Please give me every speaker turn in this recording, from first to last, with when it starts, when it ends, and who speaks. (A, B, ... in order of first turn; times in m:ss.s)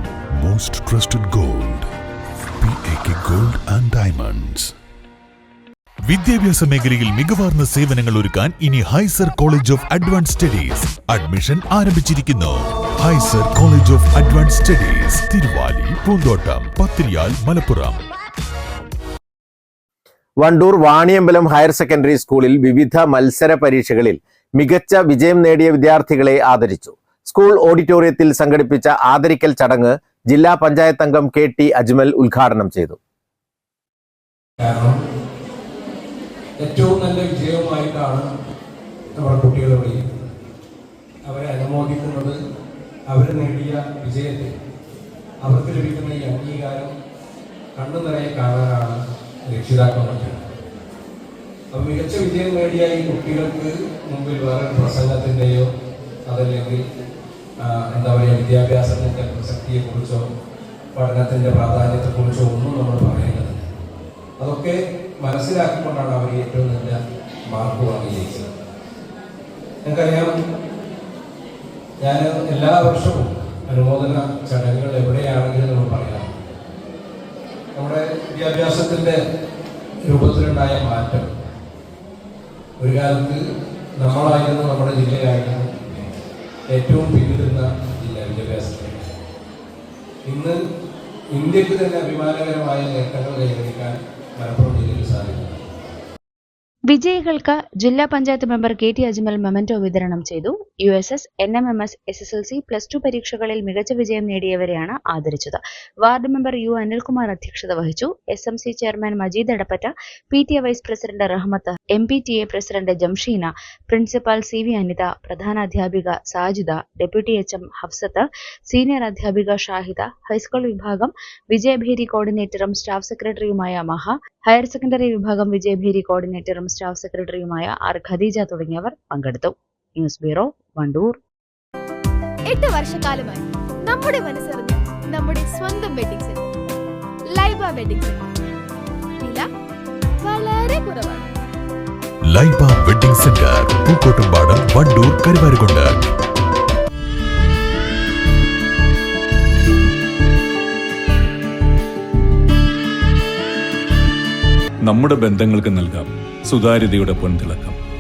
0:00.4-0:01.9 A
0:02.6-0:04.7 A
0:06.1-0:18.0 A
0:20.4-0:33.0 B
0:34.6-0:35.0 C
0:36.6-0:38.3 C
0:39.2-0:40.1 C
0:41.3-0:42.4 C
0:43.1-0:44.5 C
0:45.4-0:46.9 C
0:47.8-0:48.9 C
0:49.5-0:50.4 C
0:51.7-0:55.7 C
0:56.3-0:56.8 C
0:57.6-1:00.2 C
1:01.0-1:03.7 C
1:04.4-1:08.5 C
1:09.8-1:10.3 C
1:12.0-1:16.3 C
1:17.8-1:19.2 C
1:20.1-1:21.5 C
1:22.8-1:23.4 C
1:24.0-1:26.1 C
1:26.7-1:29.1 C
1:30.3-1:30.6 C
1:31.3-1:35.6 C
1:36.9-2:11.2 D
2:12.5-2:16.5 E
2:17.4-2:18.3 E
2:19.2-2:19.5 E
2:20.2-2:21.3 E
2:22.3-2:26.0 A
2:34.9-2:37.8 F